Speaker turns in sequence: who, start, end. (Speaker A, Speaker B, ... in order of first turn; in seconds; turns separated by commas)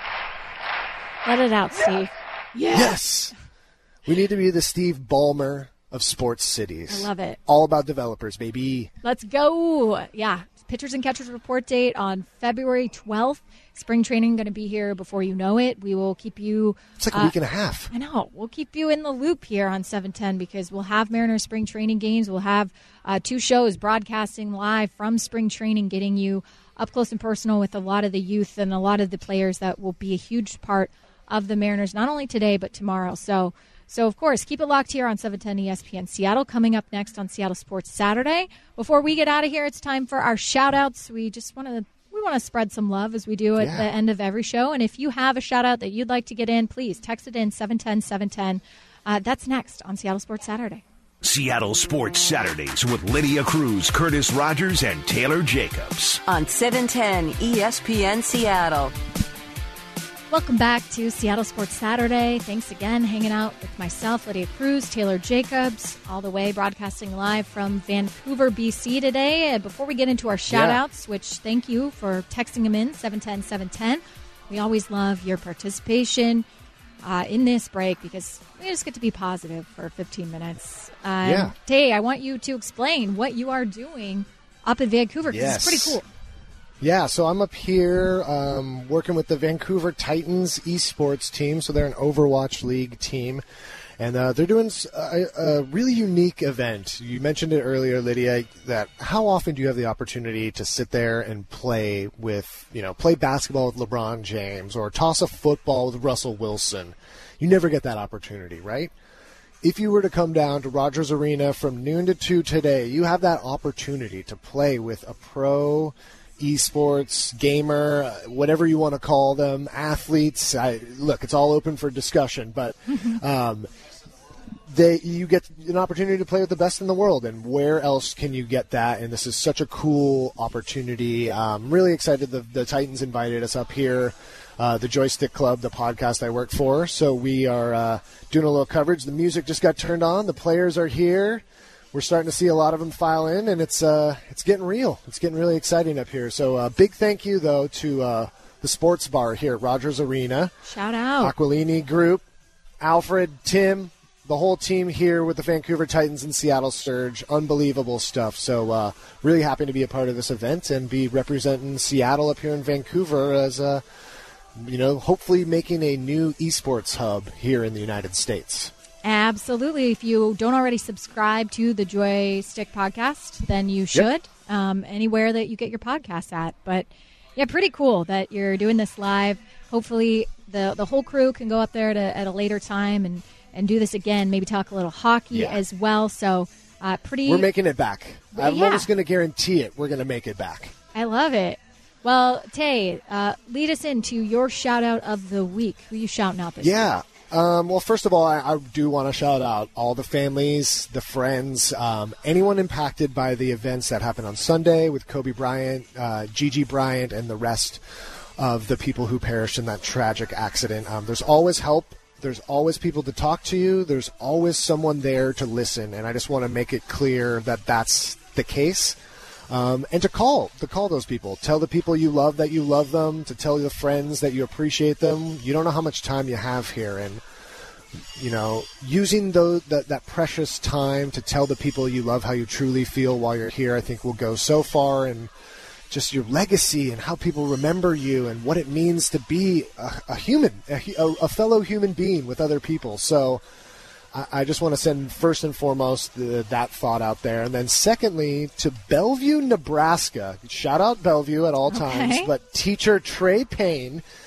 Speaker A: 1.2-3.0, Speaker B: 2.7-3.3, Speaker B: 4.0-8.9, Speaker A: 6.9-7.4, Speaker A: 9.0-17.3, Speaker B: 17.0-17.9, Speaker A: 17.9-50.8, Speaker B: 43.6-43.9, Speaker C: 51.2-56.2, Speaker D: 56.3-58.9, Speaker A: 60.3-76.5, Speaker B: 70.5-70.8, Speaker A: 77.0-86.0, Speaker B: 81.2-81.5, Speaker B: 85.3-86.0, Speaker B: 86.8-93.4, Speaker B: 94.0-108.9, Speaker B: 109.6-123.7, Speaker B: 124.7-150.5, Speaker A: 150.7-151.3, Speaker B: 151.2-152.2, Speaker B: 152.8-163.8, Speaker B: 164.6-168.7, Speaker A: 169.0-187.5, Speaker B: 185.3-185.6, Speaker B: 187.2-190.7, Speaker A: 188.3-188.9, Speaker A: 190.9-196.9, Speaker B: 196.6-207.8, Speaker B: 208.4-219.0, Speaker B: 219.5-227.2, Speaker B: 228.2-235.3, Speaker B: 235.9-243.4, Speaker B: 244.1-254.0, Speaker A: 251.7-252.3